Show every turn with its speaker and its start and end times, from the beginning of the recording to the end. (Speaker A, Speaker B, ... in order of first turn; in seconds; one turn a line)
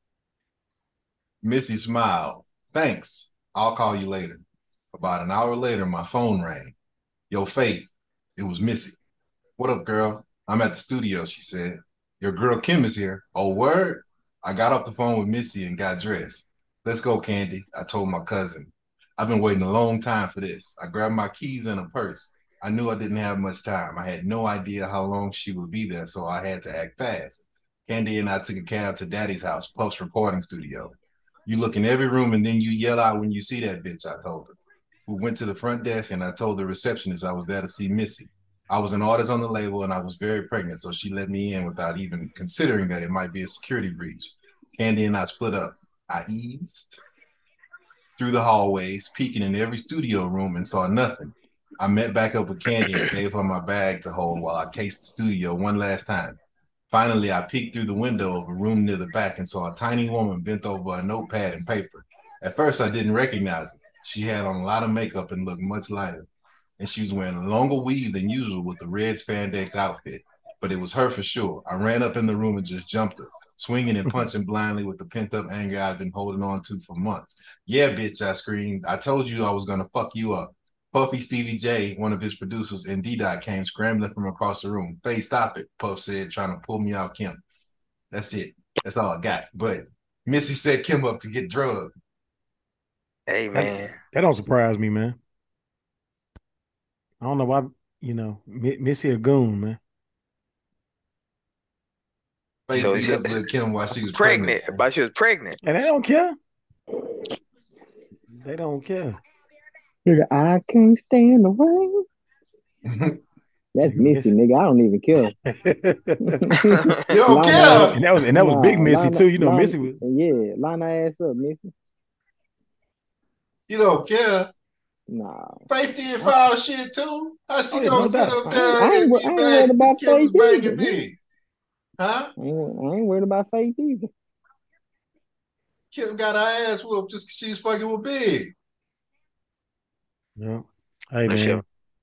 Speaker A: 1.4-6.7
Speaker A: 7.3-9.0
Speaker A: 9.6-30.9
Speaker A: 31.4-47.0
Speaker A: 48.2-56.4
Speaker A: 56.9-66.3
Speaker A: 66.8-87.4
Speaker A: 88.1-91.9
Speaker B: 93.3-93.9
Speaker C: 93.5-95.2
Speaker C: 97.2-99.8
Speaker A: 102.7-104.8
Speaker B: 102.7-103.4
Speaker B: 104.1-105.6
Speaker C: 105.6-106.3
Speaker C: 108.3-109.2
Speaker D: 110.0-112.0
Speaker A: 112.8-113.2
Speaker D: 113.7-115.3
Speaker C: 113.8-114.3
Speaker C: 115.4-116.5
Speaker D: 116.3-121.7
Speaker B: 116.6-117.0
Speaker A: 117.1-118.2
Speaker C: 117.5-120.0
Speaker A: 123.7-124.5
Speaker D: 125.1-125.7
Speaker A: 125.7-131.2
Speaker C: 127.7-128.6
Speaker D: 128.4-131.0
Speaker A: 132.0-132.3
Speaker D: 132.4-134.1
Speaker A: 135.9-138.5
Speaker C: 140.4-141.6
Speaker B: 141.3-141.6